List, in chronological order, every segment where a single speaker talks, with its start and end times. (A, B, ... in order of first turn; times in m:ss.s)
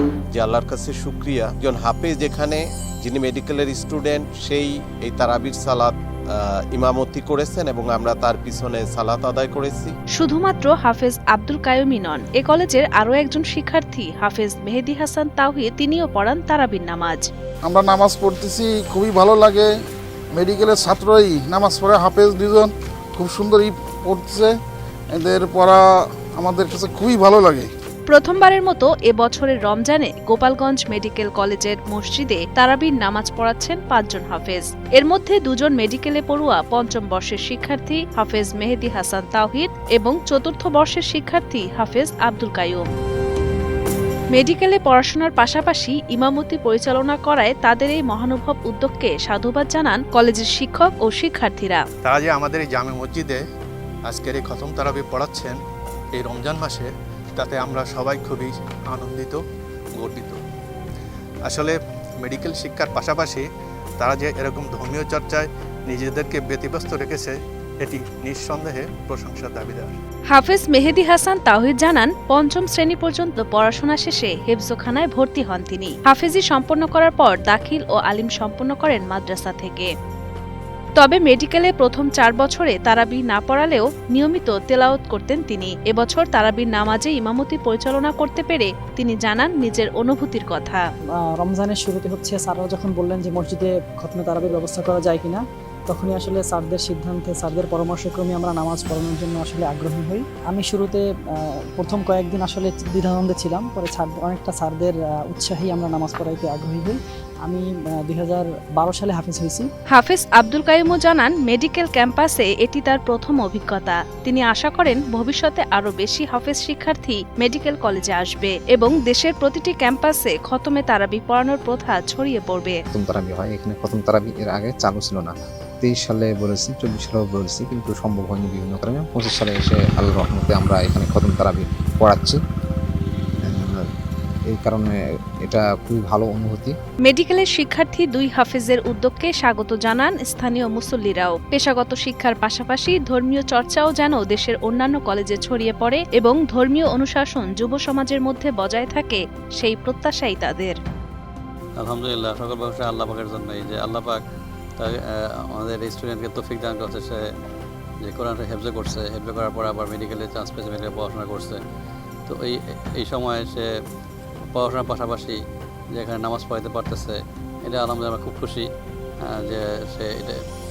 0:00.3-0:10.0 A
0:10.2-0:17.3 B
0:17.6-0:19.7 C
0:20.3-0:24.5 C
0:25.1-0:25.8 C
0:26.4-0:27.7 C
0:28.1-0:42.9 B
0:44.3-0:51.8 B
0:52.0-0:53.4 D
0:54.0-0:55.6 D
0:56.1-0:59.4 D
1:00.0-1:00.4 D
1:01.4-1:03.4 D
1:04.0-1:09.9 D
1:10.3-1:19.9 B
1:21.0-1:30.8 B
1:31.4-1:41.0 E
1:41.8-1:49.7 E
1:49.9-2:02.8 B
2:02.9-2:12.4 F
2:13.4-2:13.8 F
2:14.5-2:14.9 F
2:15.4-2:16.7 F
2:17.0-2:30.8 B
2:31.8-2:34.2 G
2:35.5-2:37.2 G
2:38.0-2:41.6 G
2:42.3-2:43.6 G
2:44.5-2:45.4 G
2:45.9-2:48.6 G
2:49.2-2:50.4 G